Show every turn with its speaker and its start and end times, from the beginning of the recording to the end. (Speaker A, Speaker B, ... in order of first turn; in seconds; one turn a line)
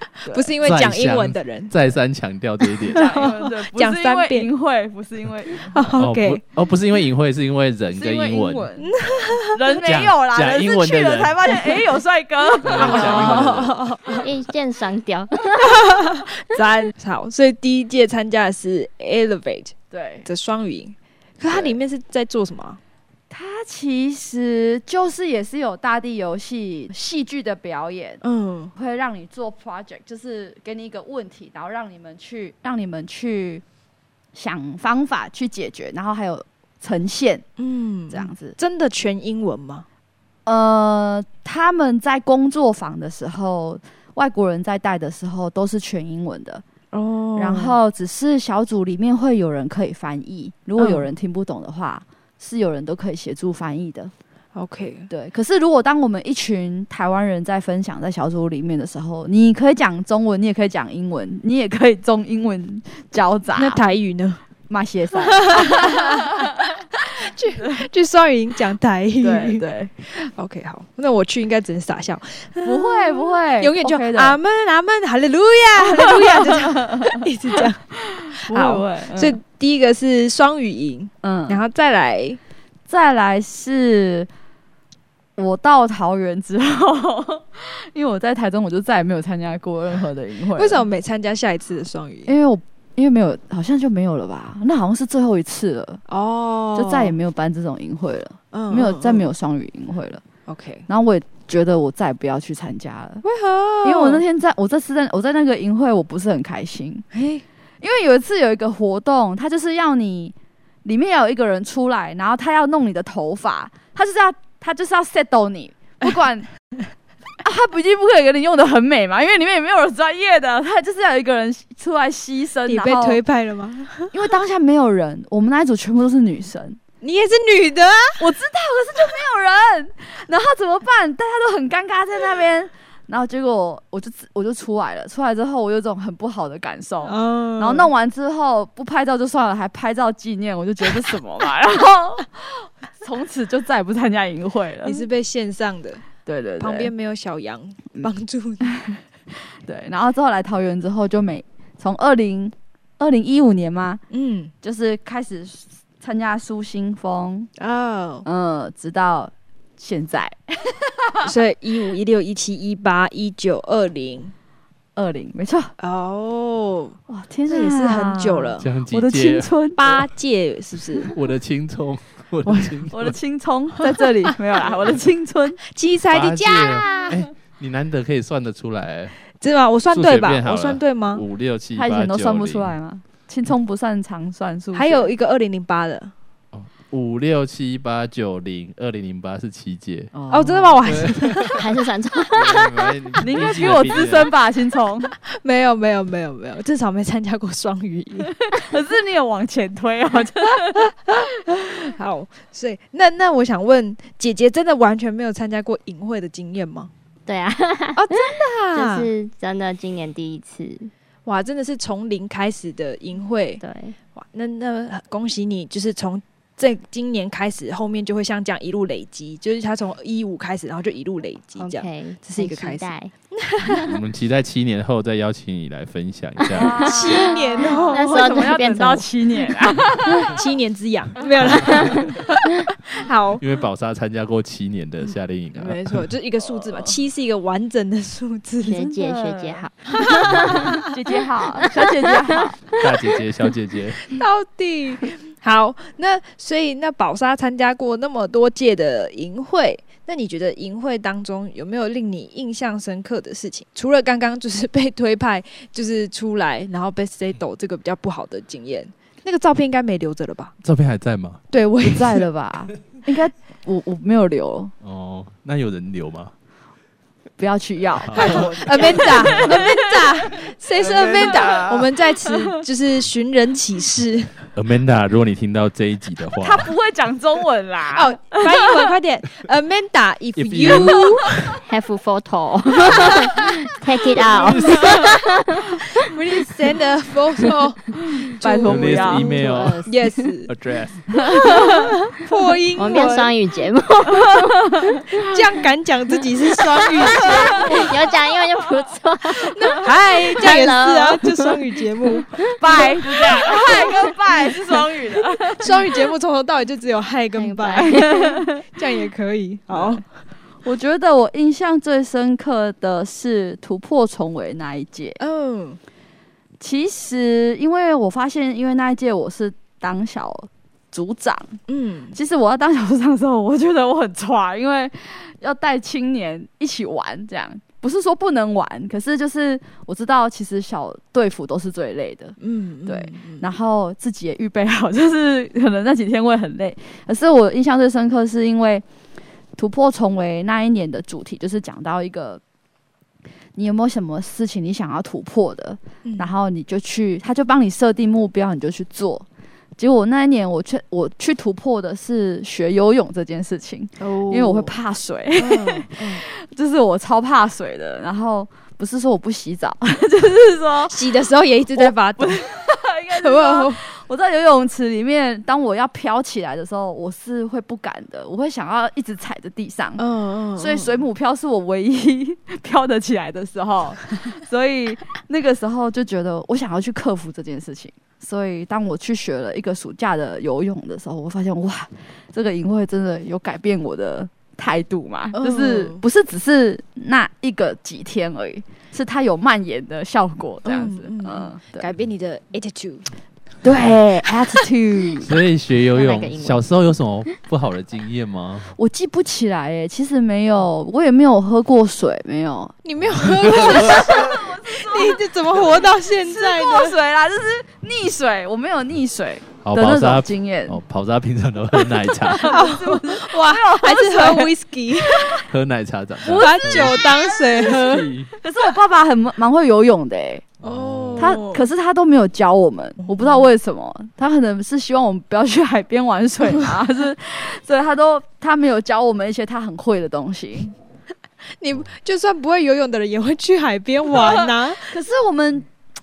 Speaker A: 0.2-0.5
Speaker B: 0.3-1.7
Speaker C: 0.6-3.3
Speaker B: 2.9-4.5
Speaker A: 2.9-5.9
Speaker B: 5.7-6.4
Speaker C: 6.0-8.7
Speaker A: 7.9-13.6
Speaker B: 8.8-9.6
Speaker C: 9.8-11.6
Speaker C: 12.6-13.8
Speaker B: 12.7-14.3
Speaker D: 14.1-15.9
Speaker B: 15.6-22.8
Speaker A: 19.9-20.3
Speaker A: 23.3-28.2
Speaker B: 28.2-28.7
Speaker A: 28.8-33.6
Speaker A: 34.4-37.5
Speaker B: 37.6-39.9
Speaker A: 38.1-38.6
Speaker A: 40.5-46.6
Speaker B: 46.9-47.8
Speaker A: 47.4-54.1
Speaker B: 50.8-51.1
Speaker B: 54.5-55.1
Speaker A: 55.1-63.8
Speaker B: 63.5-64.4
Speaker A: 64.7-66.5
Speaker B: 65.2-77.8
Speaker A: 69.2-69.9
Speaker A: 72.6-74.4
Speaker A: 75.8-77.2
Speaker A: 78.0-79.4
Speaker B: 78.3-82.4
Speaker A: 81.2-81.6
Speaker A: 82.9-84.3
Speaker A: 85.4-90.8
Speaker B: 90.6-92.3
Speaker A: 92.2-96.0
Speaker B: 96.1-97.2
Speaker A: 96.8-100.2
Speaker B: 98.5-99.3
Speaker B: 100.5-100.9
Speaker A: 100.9-103.2
Speaker B: 103.2-104.2
Speaker A: 103.8-107.1
Speaker B: 107.1-107.4
Speaker A: 107.8-116.5
Speaker A: 117.4-123.2
Speaker B: 122.7-124.1
Speaker A: 124.1-126.8
Speaker B: 127.0-128.3
Speaker A: 128.2-145.1
Speaker B: 137.0-137.9
Speaker B: 144.8-146.1
Speaker A: 146.2-146.9
Speaker B: 146.6-148.8
Speaker A: 149.6-154.0
Speaker B: 154.1-154.5
Speaker A: 154.6-157.5
Speaker B: 157.6-158.2
Speaker A: 158.2-161.3
Speaker B: 161.2-164.3
Speaker A: 164.9-165.7
Speaker B: 165.8-168.7
Speaker A: 167.1-169.8
Speaker C: 168.6-169.5
Speaker B: 169.8-171.1
Speaker C: 171.1-173.2
Speaker A: 172.9-175.6
Speaker B: 175.7-177.1
Speaker C: 176.1-179.2
Speaker B: 179.4-181.2
Speaker C: 179.9-182.7
Speaker A: 181.8-185.1
Speaker B: 184.7-186.1
Speaker C: 186.5-190.1
Speaker A: 190.1-191.0
Speaker B: 190.3-191.6
Speaker C: 190.9-191.1
Speaker D: 191.6-192.9
Speaker C: 192.3-194.3
Speaker A: 193.2-195.1
Speaker B: 195.3-198.3
Speaker A: 198.4-200.9
Speaker B: 201.8-206.9
Speaker D: 207.3-210.9
Speaker B: 207.9-209.1
Speaker B: 211.2-213.6
Speaker D: 213.6-214.0
Speaker B: 214.1-223.9
Speaker D: 221.6-223.1
Speaker C: 223.6-226.9
Speaker D: 226.4-229.5
Speaker A: 226.6-230.4
Speaker B: 226.8-228.5
Speaker B: 230.3-233.4
Speaker D: 231.6-232.1
Speaker C: 233.4-236.0
Speaker B: 235.6-238.8
Speaker A: 236.5-236.9
Speaker D: 238.6-240.7
Speaker A: 238.7-239.7
Speaker B: 240.0-240.8
Speaker A: 240.3-242.6
Speaker D: 241.7-242.5
Speaker C: 242.8-244.1
Speaker B: 244.1-260.5
Speaker C: 260.6-261.4
Speaker B: 261.5-262.3
Speaker A: 261.8-264.7
Speaker C: 264.8-266.3
Speaker A: 267.4-270.3
Speaker C: 268.0-269.6
Speaker B: 268.1-274.4
Speaker A: 270.8-272.3
Speaker C: 271.0-271.4
Speaker C: 274.5-276.8
Speaker A: 276.4-278.9
Speaker B: 277.9-281.3
Speaker C: 280.4-281.2
Speaker A: 280.7-281.0
Speaker D: 281.6-285.8
Speaker C: 282.9-283.1
Speaker C: 284.2-285.1
Speaker A: 284.4-285.1
Speaker B: 286.0-290.5
Speaker A: 288.4-289.4
Speaker C: 288.6-289.9
Speaker D: 289.2-290.2
Speaker C: 290.5-291.0
Speaker A: 291.1-291.9
Speaker B: 291.2-293.3
Speaker D: 292.8-294.7
Speaker A: 294.1-295.0
Speaker B: 295.1-297.9
Speaker A: 297.0-298.1
Speaker D: 297.1-301.5
Speaker B: 299.4-304.0
Speaker D: 302.3-303.9
Speaker A: 302.6-306.0
Speaker B: 305.5-310.0
Speaker D: 307.4-308.4
Speaker A: 307.7-308.6
Speaker A: 309.7-310.0
Speaker A: 310.6-315.2
Speaker B: 315.2-315.8
Speaker A: 316.6-321.6
Speaker B: 321.7-322.1
Speaker A: 322.1-338.9
Speaker B: 332.4-333.5
Speaker A: 339.6-342.4
Speaker A: 343.6-349.2
Speaker B: 346.0-346.3
Speaker A: 349.8-361.0
Speaker B: 354.0-354.8
Speaker B: 355.4-356.2
Speaker B: 360.9-363.8
Speaker A: 361.8-370.0
Speaker B: 370.0-371.0
Speaker A: 370.6-391.9
Speaker B: 385.3-386.0
Speaker B: 390.6-393.1
Speaker A: 393.6-395.4
Speaker C: 395.2-398.7
Speaker D: 395.9-396.6
Speaker A: 398.7-402.8
Speaker B: 402.9-407.0
Speaker A: 403.4-405.2
Speaker C: 403.5-404.0
Speaker A: 406.2-410.8
Speaker C: 409.6-412.6
Speaker A: 412.2-414.5
Speaker B: 412.4-415.5
Speaker C: 415.5-417.0
Speaker B: 416.3-418.1
Speaker A: 416.3-420.4
Speaker C: 417.6-418.3
Speaker B: 420.6-421.6
Speaker C: 420.6-421.4
Speaker A: 421.2-430.7
Speaker B: 431.6-434.9
Speaker A: 434.1-435.7